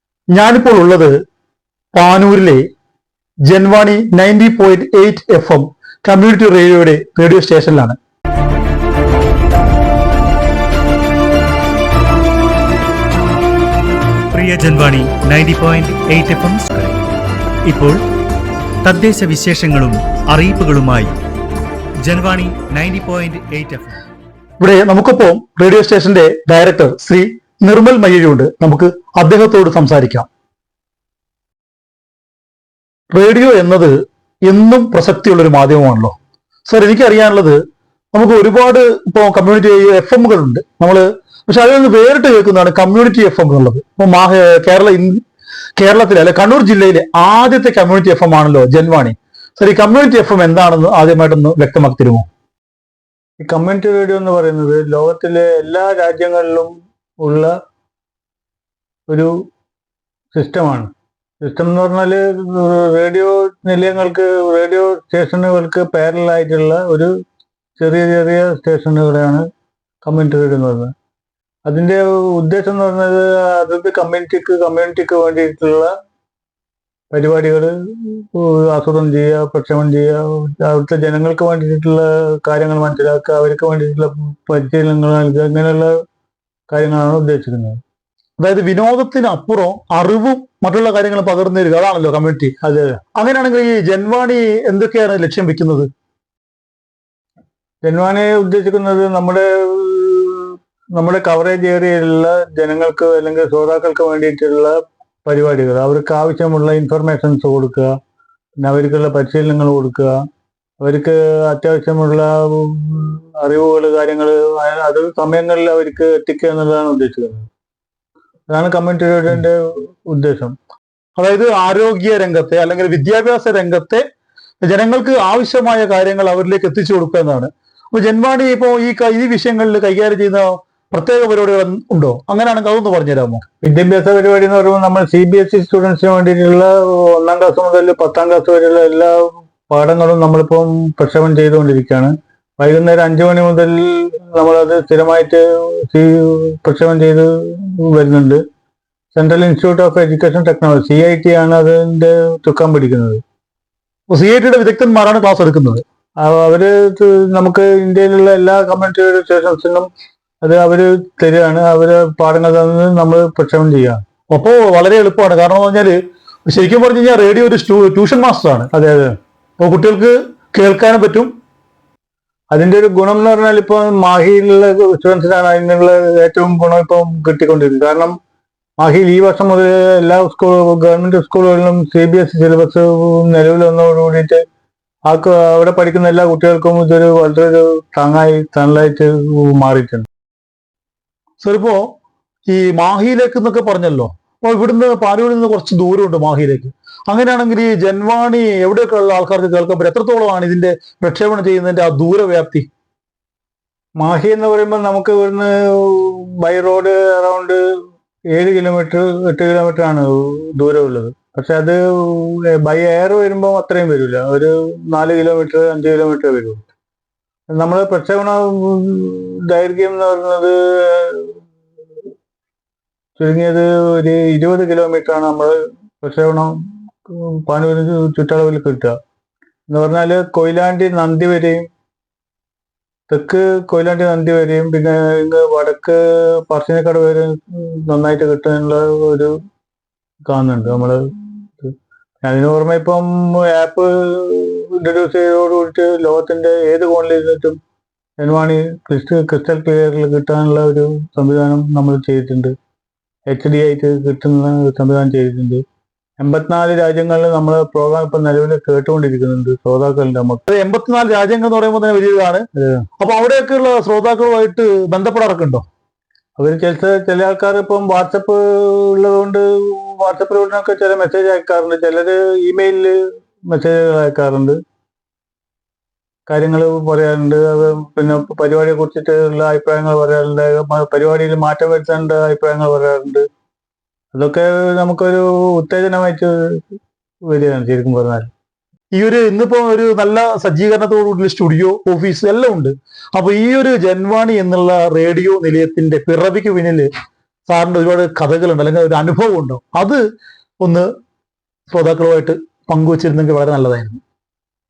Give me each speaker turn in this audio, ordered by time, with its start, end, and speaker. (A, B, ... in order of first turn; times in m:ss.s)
0:00.3-0:01.1 A
0:02.0-0:02.6 A
0:03.5-0:08.0 A
0:14.3-0:17.0 B
0:17.6-0:18.0 B
0:18.8-0:21.1 B
0:22.0-0:24.0 B
0:24.6-0:30.3 A
0:33.1-0:33.9 A
0:34.5-0:36.1 A
0:36.7-0:37.6 A
0:38.1-0:45.2 A
0:45.8-0:52.2 A
0:53.4-0:56.7 C
0:57.2-0:57.5 C
1:00.3-1:00.9 C
1:01.4-1:07.1 C
1:07.8-1:09.4 C
1:10.0-1:10.9 C
1:11.7-1:15.9 C
1:17.1-1:25.9 C
1:26.7-1:27.8 C
1:28.4-1:32.6 A
1:32.6-1:32.9 C
1:33.2-1:35.9 A
1:37.8-1:47.9 C
1:48.6-1:50.1 C
1:50.8-1:57.5 C
1:58.5-2:00.5 C
2:01.2-2:04.0 A
2:04.6-2:13.4 A
2:13.6-2:28.4 C
2:29.2-2:33.2 C
2:34.1-2:35.8 A
2:36.2-2:39.9 C
2:40.4-2:44.0 C
2:44.3-2:46.0 A
2:46.5-2:48.7 A
2:48.7-2:49.1 C
2:49.6-2:51.3 A
2:52.5-2:58.1 C
2:58.8-3:04.4 C
3:05.1-3:10.1 C
3:11.4-3:11.8 A
3:12.5-3:22.7 A
3:24.0-3:27.6 C
3:28.3-3:36.6 C
3:37.6-3:41.4 C
3:43.2-3:49.0 C
3:49.7-3:51.7 C
3:53.1-3:59.3 C
4:00.3-4:07.6 C
4:08.2-4:12.5 C
4:13.3-4:15.6 C
4:16.2-4:20.4 C
4:20.5-4:22.4 A
4:22.6-4:22.8 C
4:23.0-4:25.6 A
4:26.4-4:33.0 C
4:33.5-4:34.6 C
4:36.3-4:43.2 C
4:44.1-4:46.8 C
4:47.3-4:48.3 C
4:49.0-4:56.9 A
4:57.5-5:00.0 A
5:01.7-5:04.0 A